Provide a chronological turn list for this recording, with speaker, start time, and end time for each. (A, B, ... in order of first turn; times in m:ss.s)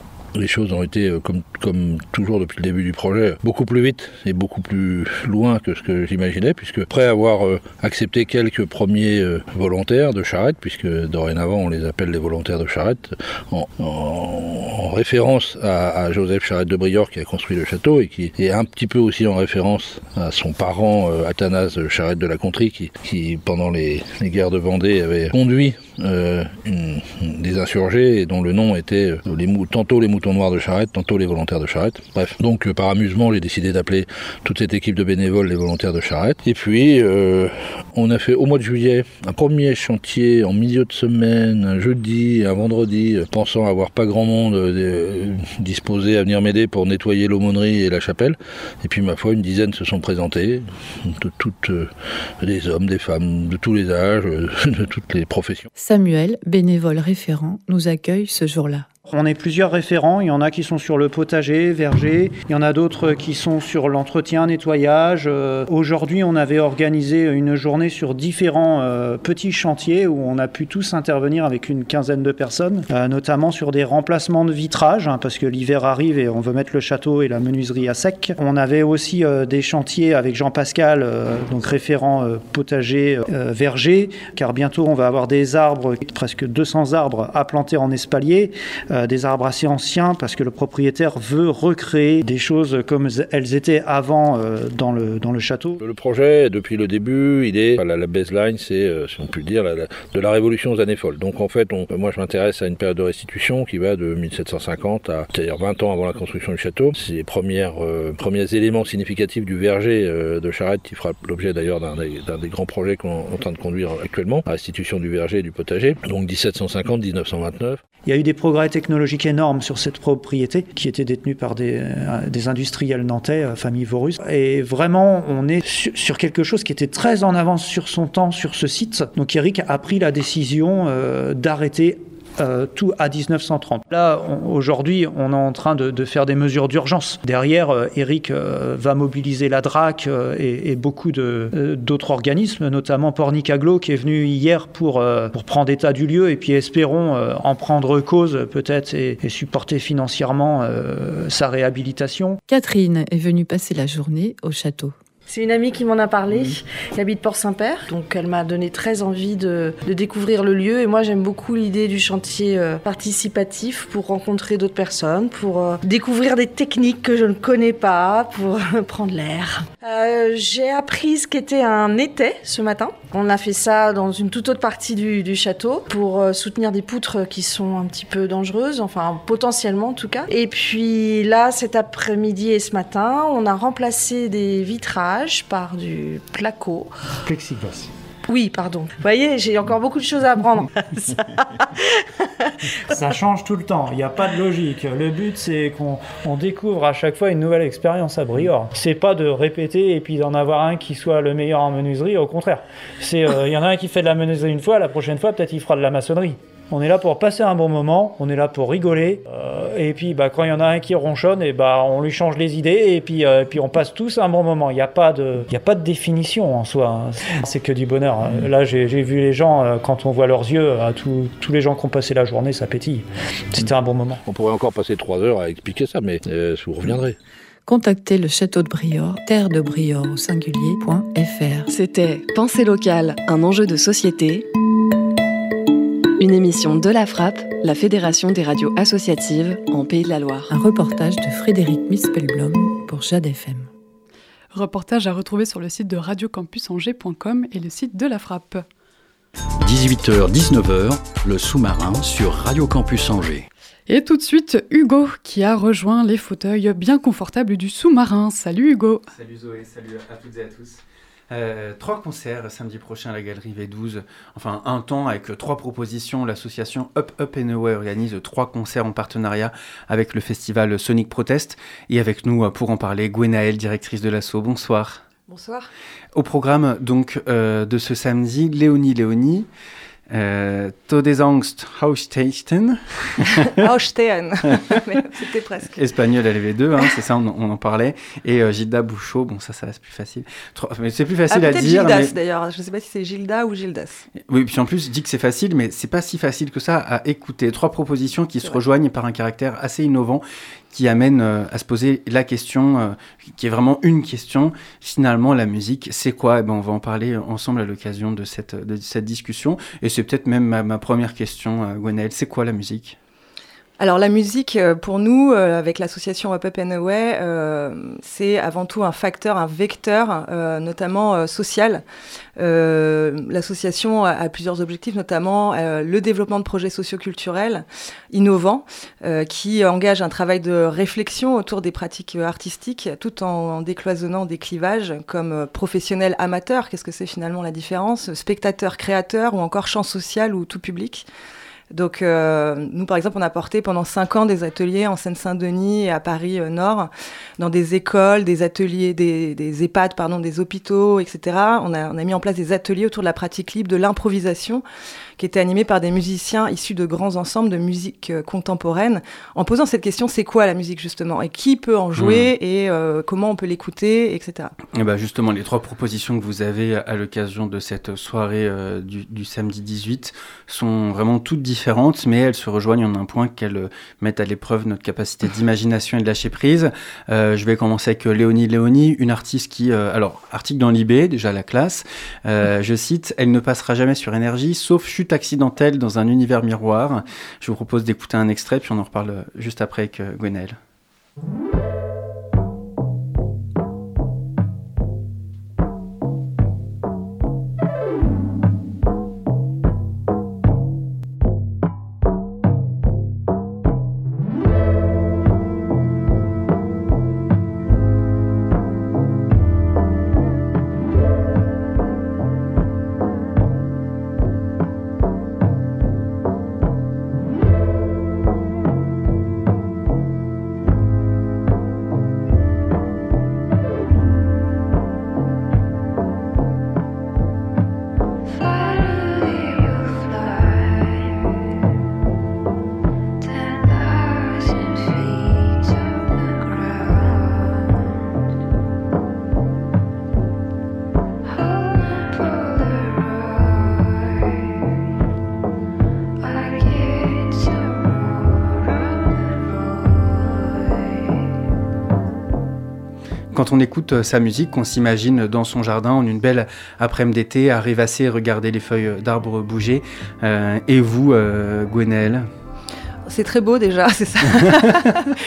0:00.3-0:55.7 A
0:55.8-0:58.9 B
0:59.1-1:35.8 C
1:35.8-1:57.8 A
1:58.0-2:32.4 C
2:32.5-2:34.9 B
2:35.3-3:06.9 D
3:07.3-3:07.9 C
3:08.3-3:11.4 D
3:12.9-3:44.2 C
3:44.2-3:47.2 A
3:47.7-3:51.7 B
3:51.7-3:54.4 E
3:56.2-4:00.5 E
4:00.5-4:03.7 B
4:04.5-4:08.6 F
4:09.6-4:13.5 G
4:13.9-4:19.0 F
4:19.1-4:35.0 H
4:35.3-4:35.7 I
4:36.1-4:39.5 H
4:40.1-4:43.5 H
4:43.4-4:45.8 I
4:45.7-4:52.1 H
4:51.3-4:54.0 I
4:54.3-5:13.0 H
5:13.8-5:21.8 I
5:22.4-5:41.0 I
5:41.7-5:54.6 I
5:55.2-6:04.5 I
6:02.0-6:02.3 H
6:04.7-6:30.6 H
7:33.3-7:42.3 H
7:43.0-7:45.1 I